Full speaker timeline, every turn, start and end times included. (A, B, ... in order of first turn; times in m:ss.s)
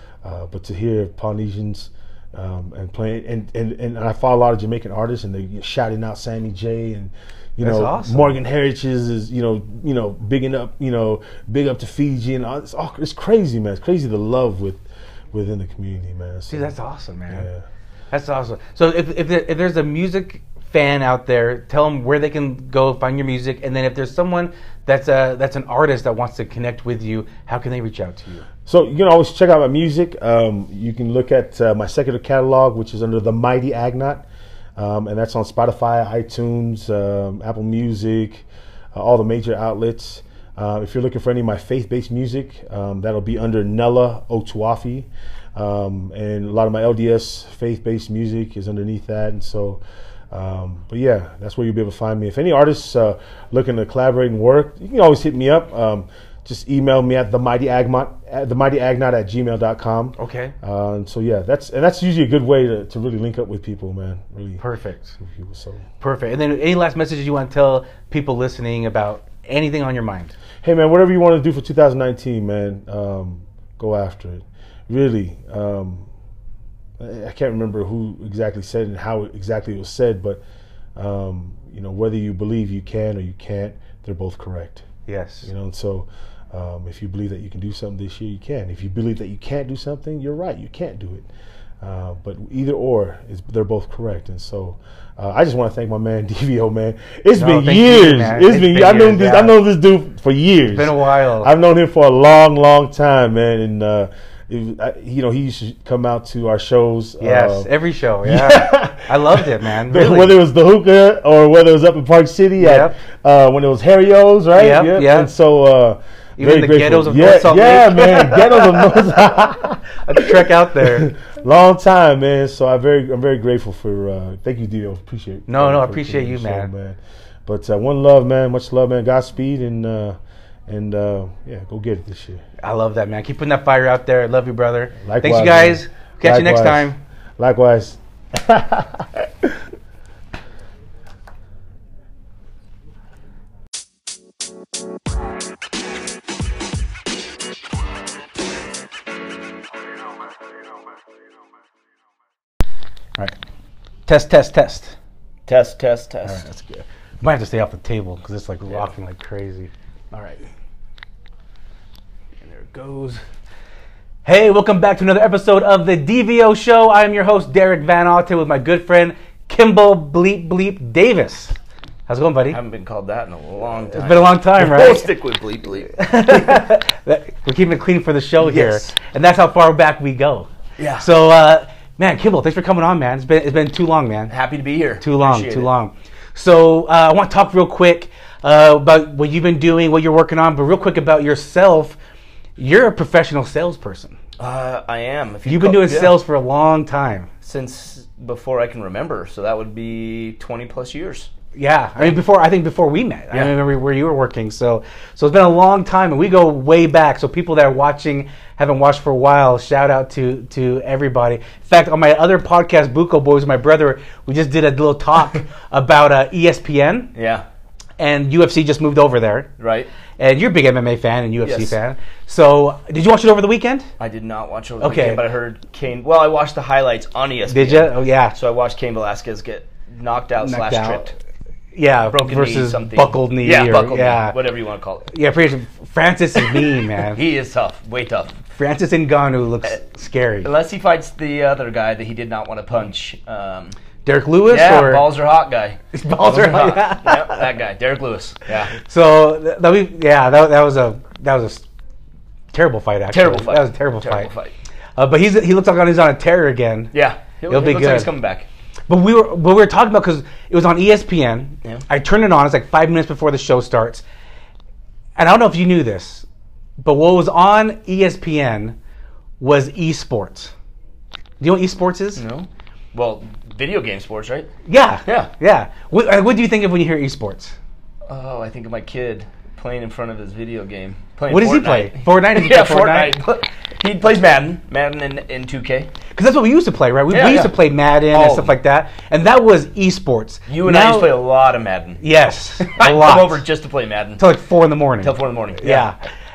0:00.2-0:16.7 A
0:07.6-0:08.4 B
0:16.5-0:17.5 B
0:17.3-0:17.6 A
0:18.1-0:28.5 B
0:28.7-1:04.6 A
1:00.2-1:00.5 B
1:04.6-1:05.2 B
1:05.2-1:05.8 A
1:06.0-1:10.4 B
1:10.6-1:16.1 A
1:17.0-1:20.4 A
1:21.0-1:24.9 A
1:25.1-1:25.5 B
1:25.4-1:31.3 A
1:31.8-1:47.7 A
1:37.4-1:39.6 B
1:40.7-1:41.5 B
1:47.2-1:50.4 B
1:48.2-2:10.2 A
1:52.6-1:53.0 B
1:54.6-1:55.3 B
1:56.4-1:59.0 B
1:59.9-2:01.1 B
2:05.5-2:06.7 B
2:10.7-2:12.4 A
2:12.6-2:17.0 B
2:15.0-2:19.6 A
2:34.1-2:35.0 B
2:35.5-2:36.4 C
2:36.2-2:40.4 B
2:42.4-2:43.2 C
2:44.2-2:51.6 B
2:52.1-2:52.6 B
2:52.5-2:56.0 C
2:54.0-2:55.1 B
2:56.0-3:04.3 B
2:58.4-2:59.0 C
3:00.8-3:01.1 C
3:04.3-3:05.7 C
3:05.0-3:12.0 B
3:12.6-3:14.2 B
3:14.4-3:16.2 C
3:15.5-3:17.3 B
3:17.4-3:21.3 C
3:21.6-3:37.1 B
3:37.2-3:37.4 C
3:38.0-3:39.5 B
3:39.6-3:39.9 C
3:40.2-3:43.9 B
3:41.4-3:41.8 C
3:44.0-3:51.2 C
3:44.8-3:45.2 B
3:47.5-3:48.4 B
3:50.4-3:51.1 B
3:51.8-3:54.4 B
3:52.1-3:55.1 C
3:55.1-3:57.2 B
3:57.0-3:58.4 C
3:58.5-4:00.5 B
4:00.4-4:03.8 C
4:04.0-4:05.1 B
4:04.5-4:08.7 C
4:05.9-4:07.4 B
4:08.8-4:11.7 B
4:12.5-4:14.3 B
4:13.1-4:14.5 C
4:15.0-4:16.9 B
4:16.9-4:18.5 C
4:17.5-4:18.1 B
4:18.9-4:24.0 B
4:25.2-4:26.3 B
4:26.8-4:28.8 B
4:29.4-4:30.5 B
4:31.4-4:32.2 B
4:32.2-4:34.5 C
4:34.7-4:37.6 B
4:38.1-4:45.9 C
4:41.3-4:43.2 B
4:46.1-4:51.1 B
4:47.1-4:47.6 C
4:48.1-4:48.6 C
4:50.5-4:52.0 C
4:52.0-4:53.4 B
4:52.6-4:54.2 C
4:54.2-4:56.0 B
4:55.0-4:55.9 C